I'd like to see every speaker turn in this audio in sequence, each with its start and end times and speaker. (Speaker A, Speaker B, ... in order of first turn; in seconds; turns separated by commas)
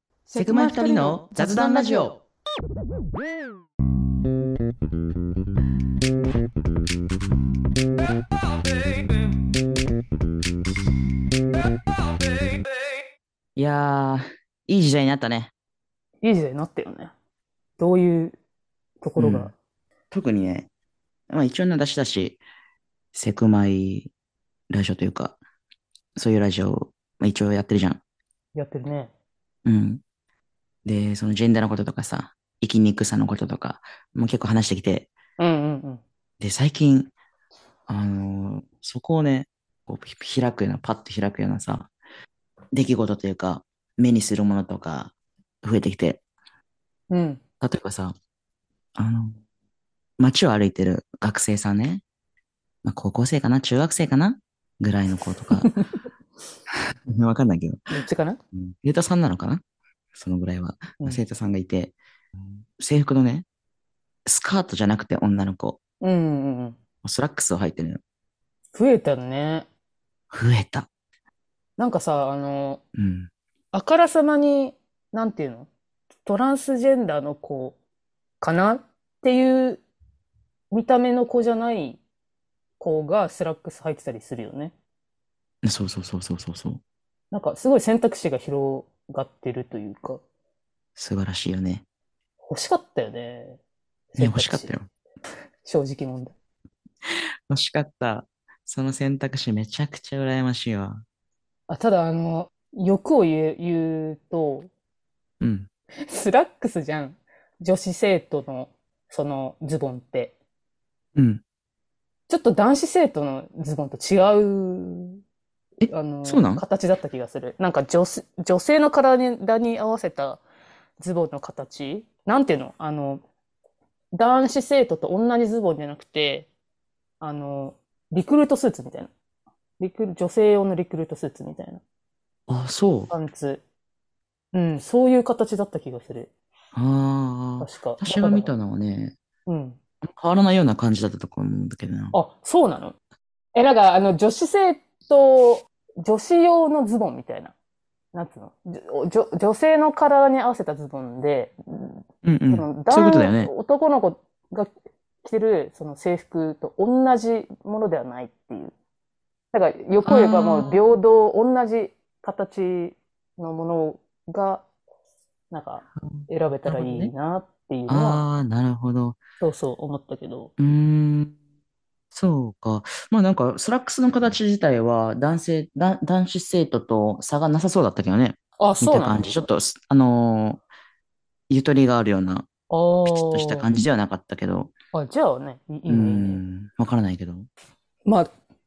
Speaker A: 0.3-2.2, Speaker B: 0.4-2.1, Speaker B: 13.6-15.5, Speaker A: 16.2-17.1, Speaker A: 17.8-18.4, Speaker A: 19.0-19.5, Speaker B: 19.2-19.5, Speaker B: 20.1-20.7, Speaker B: 21.3-22.4, Speaker B: 23.1-24.1, Speaker B: 24.7-25.4, Speaker B: 26.2-28.0, Speaker A: 28.6-29.1, Speaker B: 29.6-30.0, Speaker B: 30.9-35.1, Speaker A: 35.4-36.0, Speaker B: 36.4-37.1, Speaker B: 37.9-41.9, Speaker B: 42.7-46.2, Speaker A: 47.1-47.4, Speaker B: 47.6-48.1, Speaker B: 49.0-49.4, Speaker B: 50.2-52.0, Speaker B: 52.8-55.7, Speaker A: 55.6-56.0, Speaker B: 56.7-57.8, Speaker A: 57.9-58.4, Speaker B: 58.5-59.6, Speaker B: 60.1-62.0, Speaker B: 62.8-63.5, Speaker B: 64.3-65.8, Speaker A: 66.0-66.8, Speaker B: 67.0-68.0, Speaker A: 68.7-69.7, Speaker B: 70.3-70.9, Speaker A: 71.8-72.8, Speaker B: 73.0-73.3, Speaker A: 73.7-75.7, Speaker A: 76.2-77.8, Speaker A: 78.4-79.8, Speaker A: 80.7-82.0, Speaker A: 82.8-84.7, Speaker B: 85.6-86.8, Speaker A: 87.3-90.2, Speaker B: 91.0-91.8, Speaker A: 92.4-93.6, Speaker A: 94.1-94.8, Speaker B: 94.2-94.9, Speaker A: 95.6-96.3, Speaker B: 97.5-101.0, Speaker A: 101.7-104.7, Speaker B: 105.4-105.7, Speaker A: 106.0-110.3, Speaker B: 111.2-111.4, Speaker A: 112.3-115.2, Speaker B: 115.8-116.6, Speaker A: 115.9-120.4, Speaker A: 121.0-123.2, Speaker A: 124.1-126.5, Speaker A: 127.2-129.1, Speaker A: 129.8-131.8, Speaker B: 132.5-133.1, Speaker A: 133.1-133.6, Speaker A: 134.5-136.3, Speaker B: 136.8-139.2, Speaker A: 137.6-138.5, Speaker A: 139.5-139.8, Speaker B: 140.0-142.2, Speaker A: 142.1-142.9, Speaker A: 143.6-147.5, Speaker A: 148.1-154.7, Speaker B: 152.2-153.5, Speaker A: 155.2-158.7, Speaker A: 159.5-164.7, Speaker B: 160.0-160.8, Speaker A: 165.5-168.3, Speaker B: 166.0-167.1, Speaker B: 167.9-169.2, Speaker A: 169.4-170.5, Speaker B: 170.6-171.3, Speaker B: 172.1-180.6, Speaker A: 178.6-179.5, Speaker B: 181.5-182.5, Speaker A: 182.7-183.7, Speaker B: 183.1-184.7, Speaker A: 184.9-186.4, Speaker B: 185.9-187.5, Speaker A: 188.1-188.3